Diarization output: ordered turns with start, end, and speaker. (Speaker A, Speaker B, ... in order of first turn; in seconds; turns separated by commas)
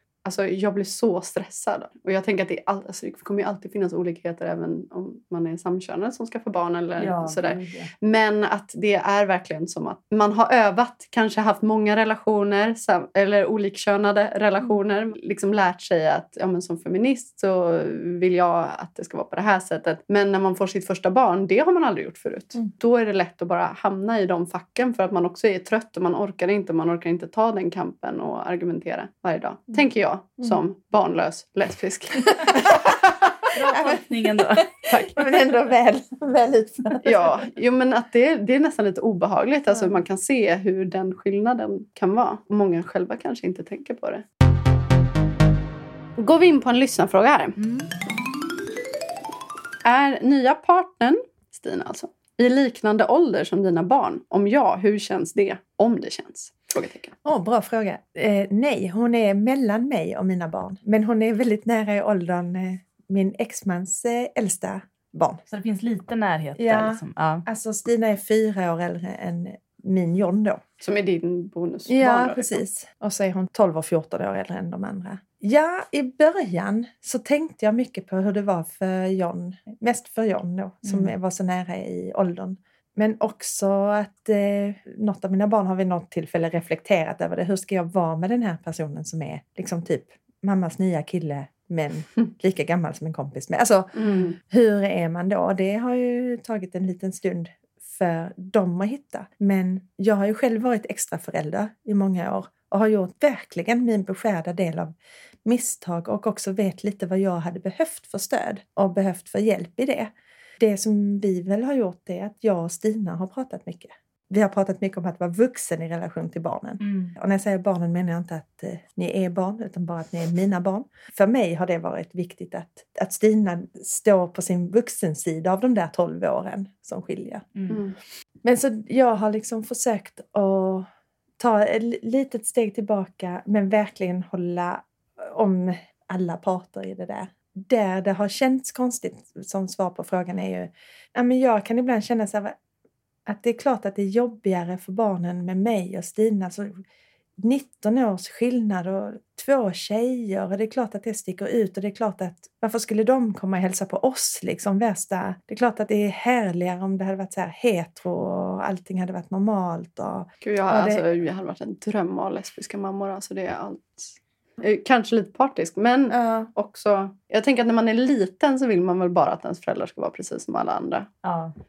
Speaker A: 0.2-32.9, Speaker B: 7.0-7.9, Speaker C: 32.3-33.0, Speaker B: 33.5-34.7, Speaker C: 33.7-37.4, Speaker A: 34.9-35.3, Speaker A: 37.0-44.2, Speaker A: 46.2-47.6, Speaker A: 49.8-57.1, Speaker C: 57.2-65.4, Speaker B: 65.5-67.4, Speaker C: 66.6-70.6, Speaker A: 70.8-72.6, Speaker C: 71.9-104.9, Speaker B: 80.8-81.1, Speaker A: 93.9-94.3, Speaker C: 105.4-127.4, Speaker B: 116.8-117.1, Speaker A: 127.7-128.0, Speaker C: 128.4-130.9, Speaker C: 131.4-142.6, Speaker C: 143.3-146.8, Speaker C: 147.4-161.0, Speaker A: 160.4-171.1, Speaker C: 166.1-166.5, Speaker B: 171.2-171.5